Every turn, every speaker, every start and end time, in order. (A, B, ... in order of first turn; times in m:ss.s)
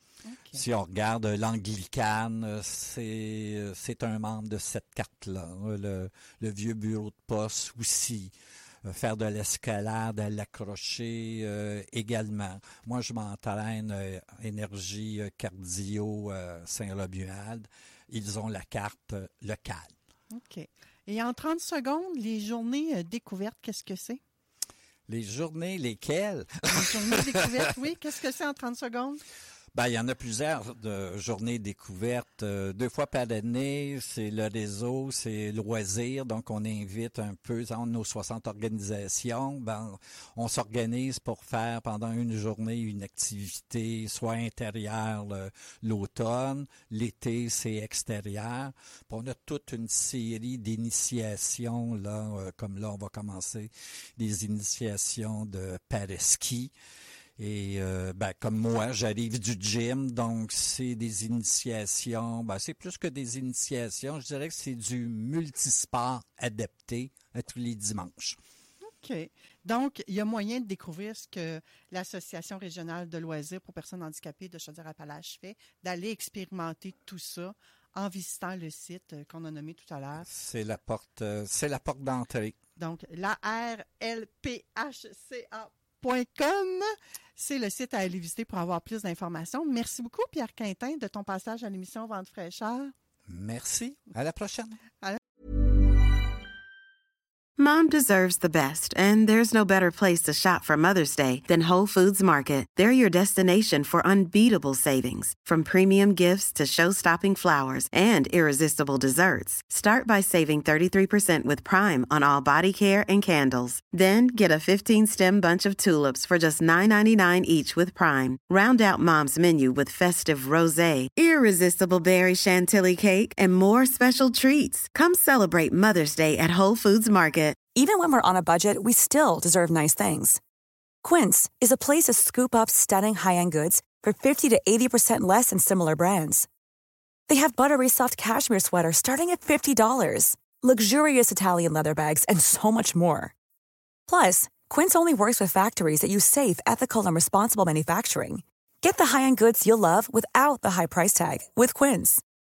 0:00.2-0:00.6 A
0:00.5-0:08.3 B
0:08.9-0:19.9 B
0:20.3-0:24.2 A
0:25.1-0:26.9 B
0:26.7-0:29.2 A
0:29.7-0:56.7 B
0:57.4-1:08.4 B
1:08.8-1:20.3 A
1:20.2-1:22.6 B
1:22.8-1:32.9 A
1:33.3-1:34.8 B
1:37.6-2:07.6 C
2:07.8-2:10.4 D
2:11.0-2:16.5 D
2:17.3-2:23.3 D
2:24.1-2:32.2 D